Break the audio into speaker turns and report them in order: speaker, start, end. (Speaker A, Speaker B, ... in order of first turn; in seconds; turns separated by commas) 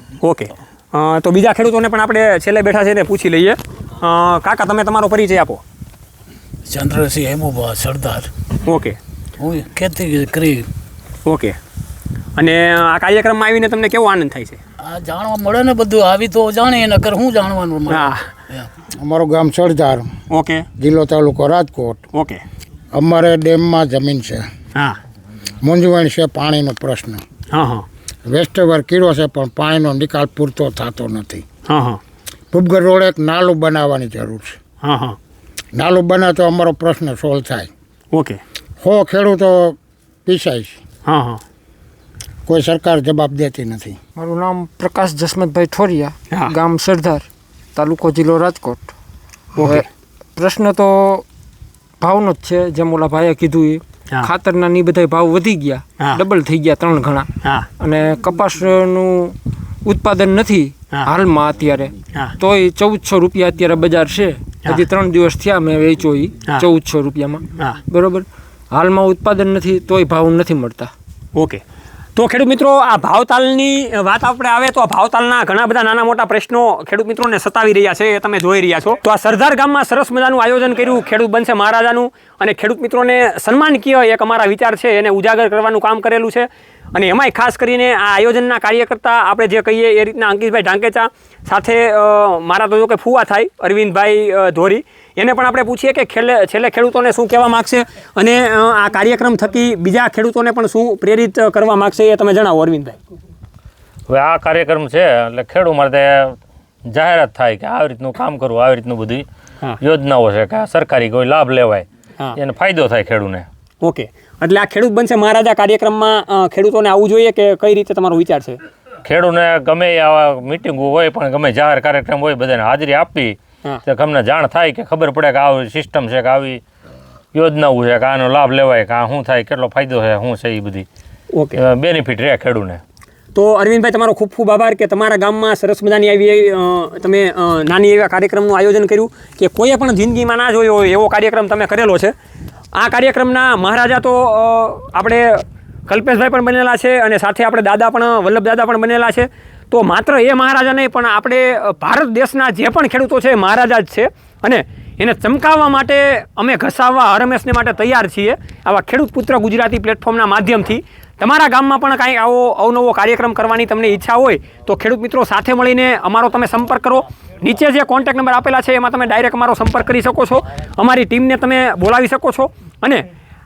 Speaker A: 0.2-5.6, Speaker B: 6.7-8.3, Speaker A: 8.7-9.0, Speaker B: 9.4-10.7, Speaker A: 11.3-11.6, Speaker A: 12.4-14.6, Speaker B: 14.8-18.7, Speaker A: 17.9-18.2, Speaker C: 19.0-20.1, Speaker A: 20.3-20.7, Speaker C: 20.8-22.0, Speaker A: 22.1-22.4, Speaker C: 22.9-24.5, Speaker C: 25.6-27.2, Speaker A: 27.5-27.9, Speaker C: 28.3-31.4, Speaker A: 31.7-32.0, Speaker C: 32.5-34.6, Speaker A: 34.8-35.2, Speaker C: 35.8-37.7, Speaker A: 38.1-38.4, Speaker C: 38.8-40.8, Speaker A: 41.0-41.4, Speaker C: 42.5-44.0, Speaker D: 44.2-48.9, Speaker A: 49.5-49.9, Speaker D: 49.6-49.9, Speaker D: 50.4-51.3, Speaker D: 52.0-70.9, Speaker A: 71.4-71.6, Speaker A: 72.2-103.0, Speaker E: 104.1-106.4, Speaker E: 106.9-109.3, Speaker E: 109.8-113.5, Speaker A: 113.8-118.6, Speaker E: 119.0-126.6, Speaker E: 127.3-130.9, Speaker A: 131.3-131.6, Speaker E: 131.6-132.8, Speaker A: 133.3-142.1, Speaker A: 142.8-173.1